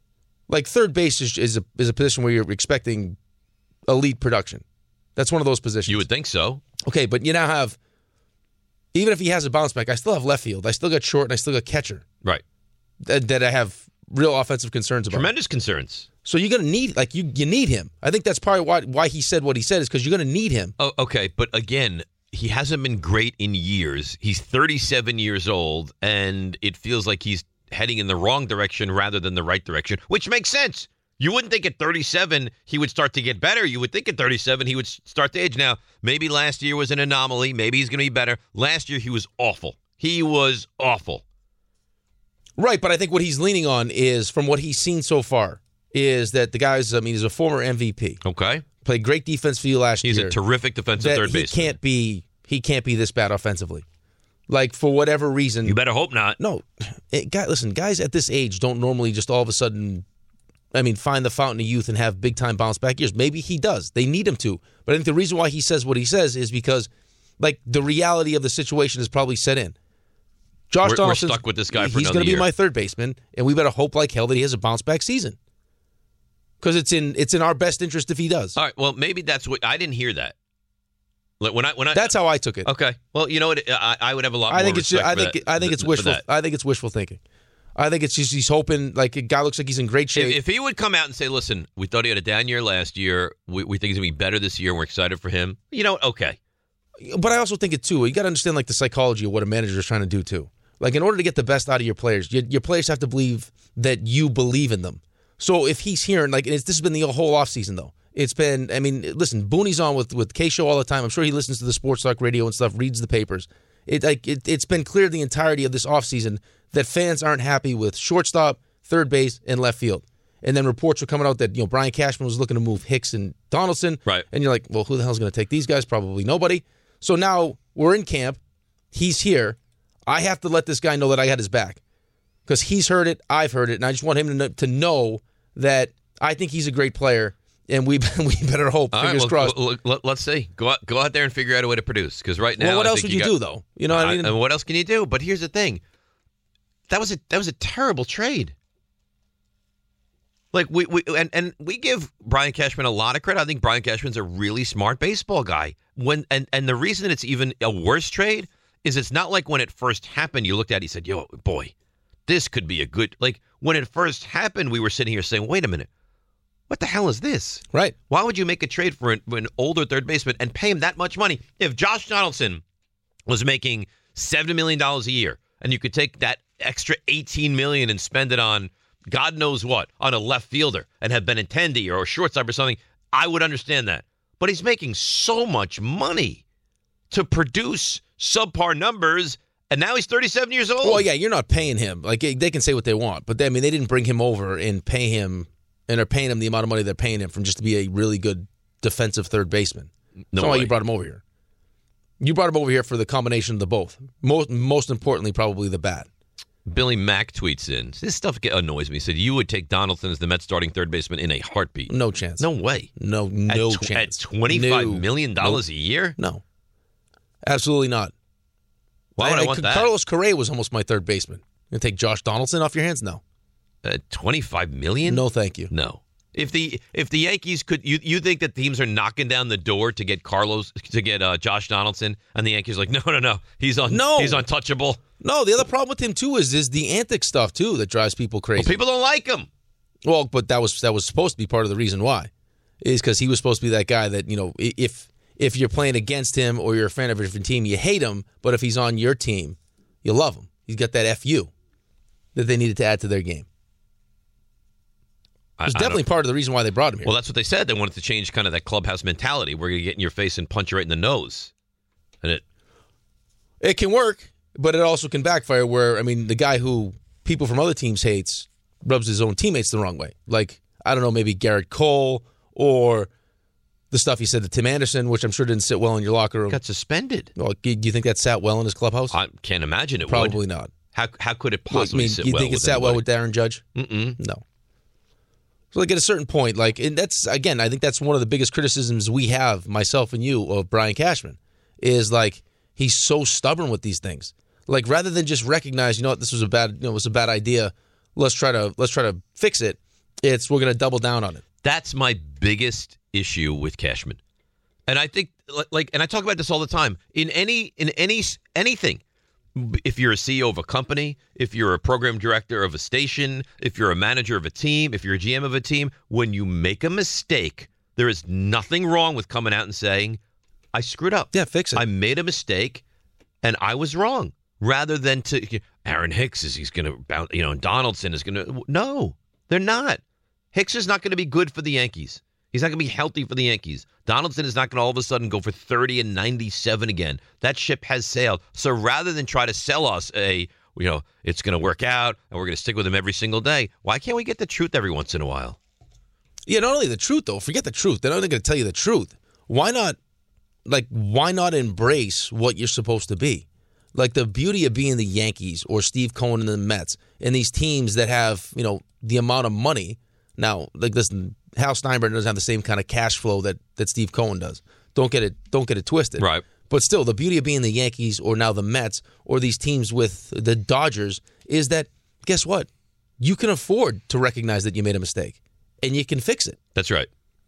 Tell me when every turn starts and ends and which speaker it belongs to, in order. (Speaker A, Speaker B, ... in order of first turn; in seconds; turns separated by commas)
Speaker A: 0.5-3.2, Speaker A: 3.9-4.6, Speaker A: 5.2-6.0, Speaker B: 5.9-6.6, Speaker A: 6.8-7.8, Speaker A: 8.9-12.0, Speaker A: 13.0-15.3, Speaker B: 15.1-16.1, Speaker A: 16.2-20.7, Speaker B: 20.8-41.2, Speaker A: 42.6-48.2, Speaker B: 48.2-48.6, Speaker A: 48.8-50.4, Speaker B: 50.0-51.8, Speaker A: 51.0-53.8, Speaker A: 54.5-55.8, Speaker B: 55.6-56.4, Speaker A: 56.4-60.0, Speaker A: 60.7-69.7, Speaker A: 70.7-75.3, Speaker B: 70.8-72.5, Speaker A: 76.6-78.6, Speaker B: 78.6-80.3, Speaker B: 81.4-86.2, Speaker A: 81.9-82.7, Speaker A: 84.5-87.2, Speaker A: 87.8-90.4, Speaker B: 90.1-96.4, Speaker A: 97.0-128.4, Speaker A: 128.9-131.8, Speaker A: 132.5-139.6, Speaker B: 138.9-143.3, Speaker A: 142.6-144.3, Speaker B: 143.9-145.8, Speaker B: 146.9-148.5, Speaker B: 150.5-161.7, Speaker B: 162.3-165.9, Speaker B: 166.7-172.6, Speaker B: 173.3-186.4, Speaker B: 187.1-191.0, Speaker A: 190.8-201.2, Speaker B: 200.3-200.7, Speaker A: 202.2-206.1, Speaker B: 206.7-212.9, Speaker A: 211.9-212.5, Speaker A: 213.0-215.6, Speaker B: 213.5-216.2, Speaker A: 216.2-216.4, Speaker A: 217.4-218.1, Speaker B: 219.2-219.9, Speaker A: 219.2-223.2, Speaker B: 223.8-235.0, Speaker A: 225.0-225.7, Speaker A: 233.9-234.4, Speaker A: 235.2-238.8, Speaker B: 238.6-239.5, Speaker A: 240.0-242.3, Speaker A: 242.8-251.5, Speaker A: 252.3-253.5, Speaker B: 255.6-256.0, Speaker A: 255.7-257.1, Speaker B: 257.0-261.5, Speaker A: 263.6-273.1, Speaker A: 273.9-276.6, Speaker B: 276.5-277.3, Speaker A: 277.4-279.1, Speaker B: 279.1-280.4, Speaker A: 280.1-280.7, Speaker B: 280.9-283.0, Speaker A: 281.7-283.6, Speaker B: 283.8-284.2, Speaker A: 284.2-284.4, Speaker A: 285.7-301.4, Speaker B: 301.6-304.2, Speaker B: 304.9-309.0, Speaker B: 309.5-320.2, Speaker B: 320.7-322.8, Speaker A: 321.3-321.8, Speaker B: 323.4-330.0, Speaker B: 330.5-345.6, Speaker A: 346.5-350.0, Speaker A: 350.6-372.7, Speaker B: 366.2-366.4, Speaker A: 373.2-376.6, Speaker B: 376.8-377.1